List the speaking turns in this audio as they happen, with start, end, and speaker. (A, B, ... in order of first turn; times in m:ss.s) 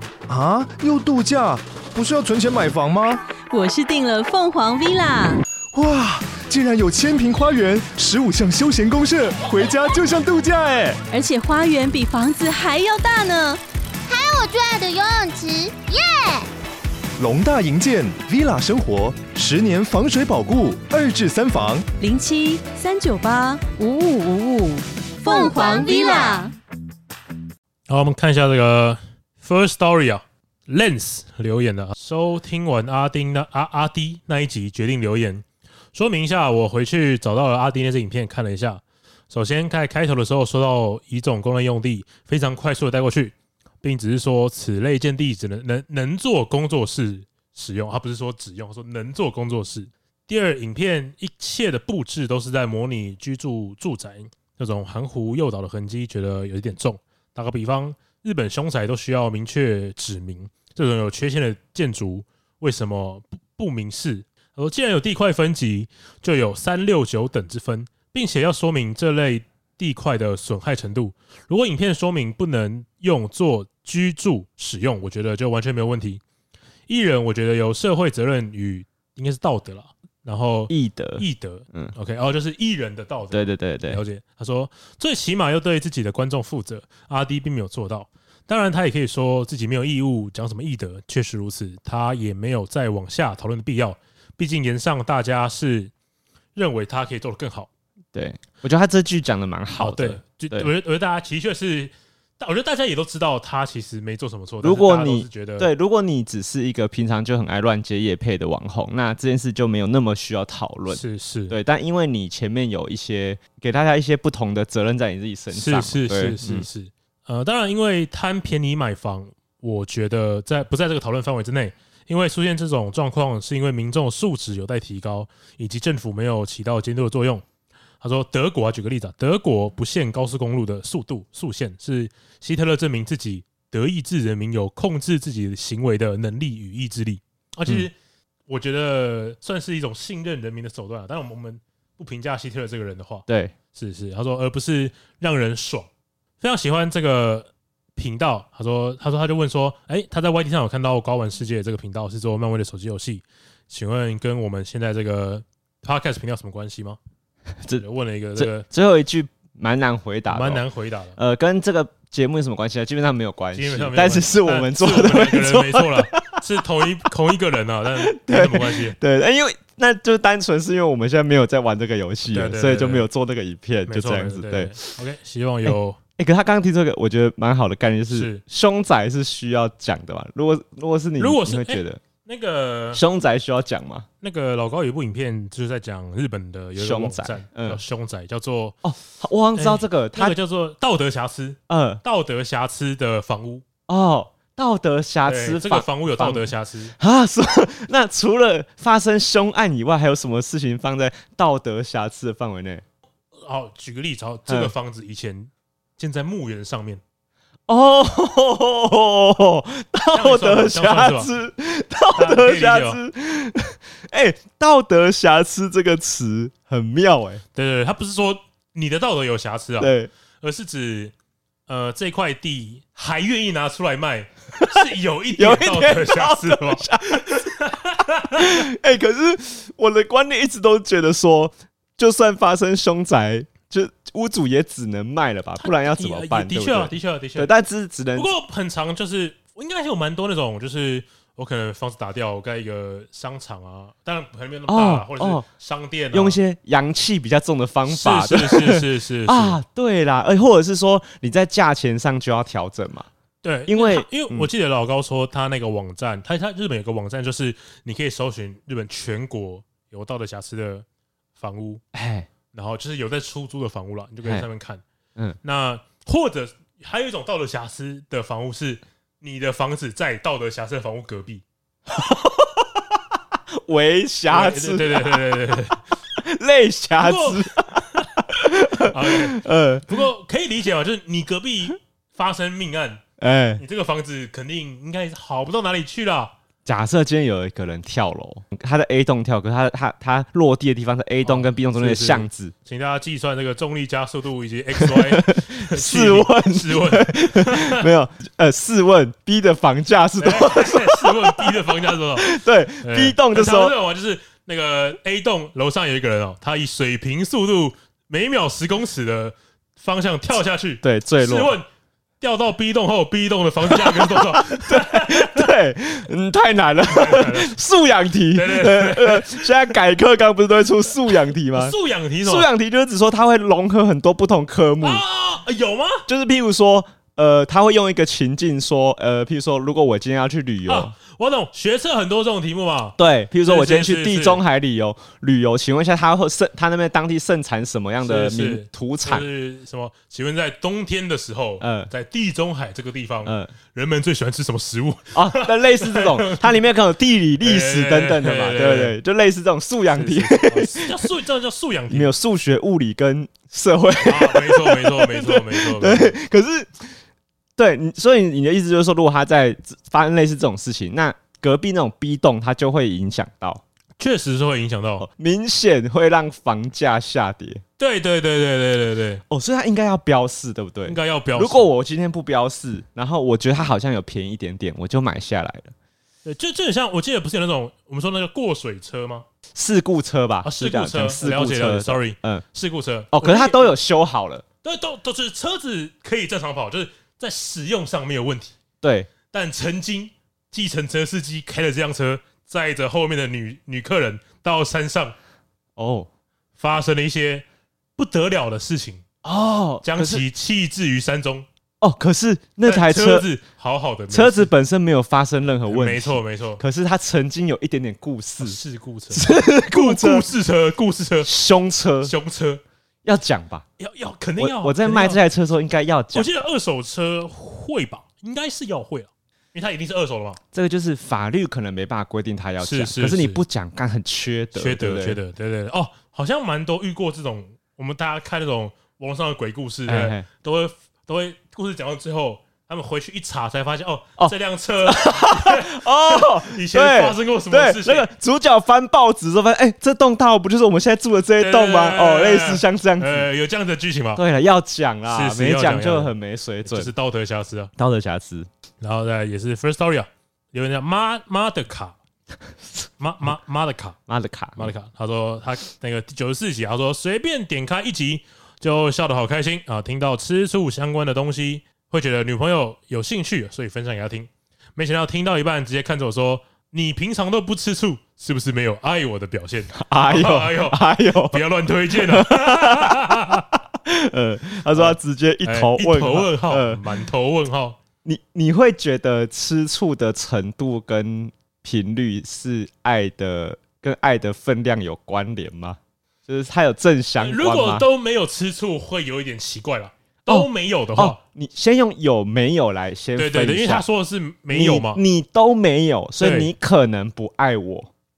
0:00.3-0:03.2 A
0:03.5-0:05.4 B
0:05.7-0:11.0 A
0:11.1-0:13.6 B
0:14.1-0:16.5 C
0:17.2-0:21.8 A
0:22.0-0:26.5 B
0:25.2-0:26.5 C
0:27.9-1:16.2 D
1:16.9-1:35.9 D
1:20.7-1:21.9 E
1:23.3-1:24.0 E
1:36.6-1:37.7 D
1:38.1-1:40.7 E
1:39.8-1:45.7 D
1:44.6-1:56.7 E
1:50.9-1:51.6 D
1:55.5-2:07.4 D
2:08.0-2:17.9 D
2:18.5-2:25.9 D
2:23.3-2:23.5 E
2:26.4-2:37.0 D
2:37.8-2:38.7 D
2:38.4-2:40.6 E
2:40.3-2:41.2 D
2:41.2-2:46.4 E
2:43.5-2:49.0 D
2:48.0-2:55.0 E
2:52.3-2:53.0 D
2:53.9-2:56.0 D
2:55.7-3:02.0 E
2:58.1-2:58.4 D
3:01.2-3:03.0 D
3:02.9-3:04.1 E
3:04.2-3:08.8 D
3:06.8-3:07.8 E
3:08.8-3:10.4 E
3:09.6-3:13.6 D
3:11.7-3:12.0 E
3:13.9-3:22.8 E
3:15.3-3:17.0 D
3:23.4-3:27.0 D
3:27.7-3:37.4 E
3:30.1-3:31.3 D
3:32.2-3:33.0 D
3:37.6-3:41.1 D
3:39.8-3:40.1 E
3:41.7-3:48.6 D
3:45.4-3:47.5 E
3:48.4-3:58.3 E
3:55.6-3:57.5 D
3:58.2-4:06.4 D
4:04.7-4:05.4 E
4:06.1-4:13.1 E
4:07.9-4:09.6 D
4:13.4-4:20.8 D
4:13.7-4:14.5 E
4:21.4-4:21.8 D
4:21.9-4:22.3 E
4:22.5-4:24.8 D
4:25.4-4:31.4 D
4:31.9-4:35.3 E
4:34.3-4:35.8 D
4:36.2-4:40.0 E
4:37.0-4:38.1 D
4:38.9-4:43.0 D
4:43.2-4:43.6 E
4:43.6-4:46.3 D
4:46.6-4:52.5 E
4:51.2-4:57.8 D
4:54.8-5:01.6 E
5:00.2-5:02.3 D
5:02.2-5:03.8 E
5:02.8-5:11.7 D
5:10.8-5:11.5 E
5:12.2-5:15.5 D
5:13.7-5:25.0 E
5:16.9-5:17.6 D
5:18.3-5:19.5 D
5:21.5-5:22.5 D
5:24.8-5:26.0 D
5:26.1-5:30.9 E
5:30.7-5:34.4 D
5:33.0-5:39.2 E
5:38.0-5:46.6 D
5:41.6-5:41.9 E
5:43.2-5:43.5 E
5:45.1-5:51.1 E
5:47.4-5:49.0 D
5:49.9-5:52.1 D
5:51.9-5:56.9 E
5:54.0-5:56.2 D
5:57.6-6:03.6 E
6:04.0-6:05.1 D
6:05.0-6:07.6 E
6:07.8-6:09.2 D
6:09.3-6:15.7 E
6:10.9-6:11.7 D
6:16.2-6:19.2 D
6:19.6-6:22.4 E
6:20.4-6:23.8 D
6:23.1-6:24.4 E
6:24.6-6:28.5 D
6:28.8-6:29.1 E
6:29.3-6:35.2 D
6:35.8-6:36.1 E
6:36.6-6:37.5 D
6:38.0-6:39.0 D
6:39.2-6:40.2 E
6:39.8-6:41.5 D
6:41.8-6:43.3 E
6:42.6-6:44.5 D
6:44.1-6:48.6 E
6:45.7-6:46.6 D
6:48.4-6:51.3 D
6:49.1-6:50.3 E
6:51.2-6:52.1 E
6:52.0-6:52.6 D
6:53.0-6:53.7 E
6:53.8-6:55.2 D
6:54.4-6:56.3 E
6:56.1-7:00.4 D
7:00.5-7:05.2 E
7:02.6-7:03.4 D
7:04.5-7:18.1 D
7:09.9-7:10.3 E
7:14.9-7:23.3 E
7:21.4-7:24.2 D
7:24.2-7:26.9 E
7:25.1-7:26.1 D
7:26.7-7:27.7 D
7:27.8-7:28.5 E
7:28.8-7:32.0 D
7:32.6-7:32.9 E
7:33.0-7:34.0 D
7:34.1-7:34.7 E
7:34.6-7:53.5 D
7:49.7-7:56.8 E
7:54.7-7:57.8 D
7:58.0-8:07.9 E
8:07.2-8:11.2 D
8:10.3-8:13.8 E
8:13.2-8:15.0 D
8:14.5-8:17.9 E
8:16.2-8:16.5 D